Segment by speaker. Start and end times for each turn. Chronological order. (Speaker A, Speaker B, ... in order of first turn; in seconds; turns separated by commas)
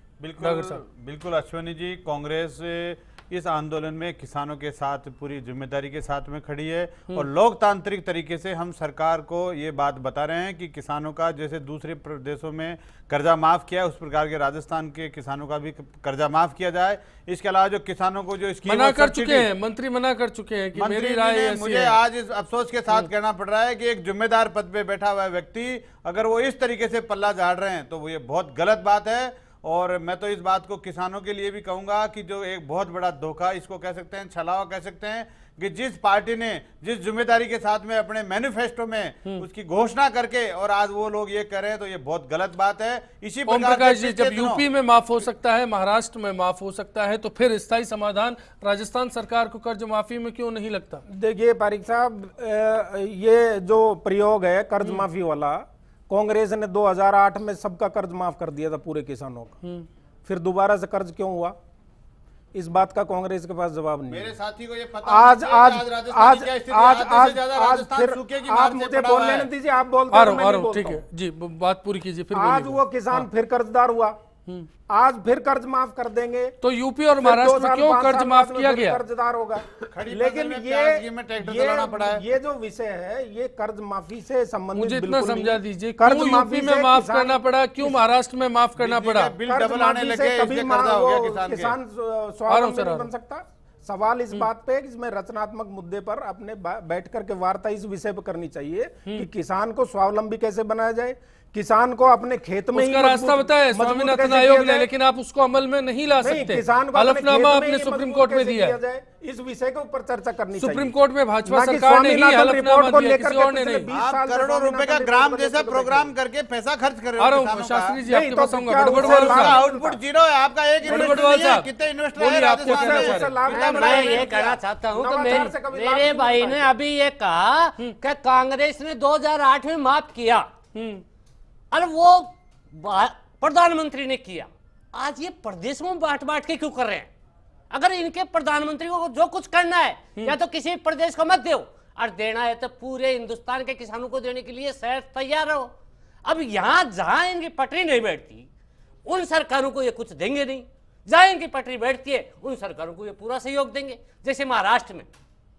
Speaker A: 0.2-19.5, Speaker B: 0.4-0.8, Speaker B: 18.6-22.0, Speaker A: 20.7-44.6, Speaker B: 43.5-51.0, Speaker C: 51.1-59.5, Speaker C: 60.2-61.5, Speaker C: 62.5-64.4, Speaker A: 64.1-69.5, Speaker C: 65.0-71.0, Speaker B: 70.1-73.2, Speaker C: 72.3-74.1, Speaker C: 74.9-76.5, Speaker B: 76.6-79.0, Speaker C: 77.2-87.9, Speaker A: 79.8-82.2, Speaker B: 84.7-89.4, Speaker A: 88.8-91.8, Speaker C: 89.5-104.9, Speaker B: 92.5-93.1, Speaker B: 102.7-108.8, Speaker C: 106.2-116.1, Speaker B: 110.5-113.9, Speaker A: 113.9-118.0, Speaker B: 117.2-119.6, Speaker C: 118.1-120.0, Speaker A: 118.9-124.3, Speaker B: 120.8-123.4, Speaker C: 122.7-126.7, Speaker D: 123.5-130.5, Speaker B: 130.7-131.0, Speaker D: 131.7-137.1, Speaker D: 137.7-145.7, Speaker D: 146.2-148.5, Speaker D: 149.1-155.1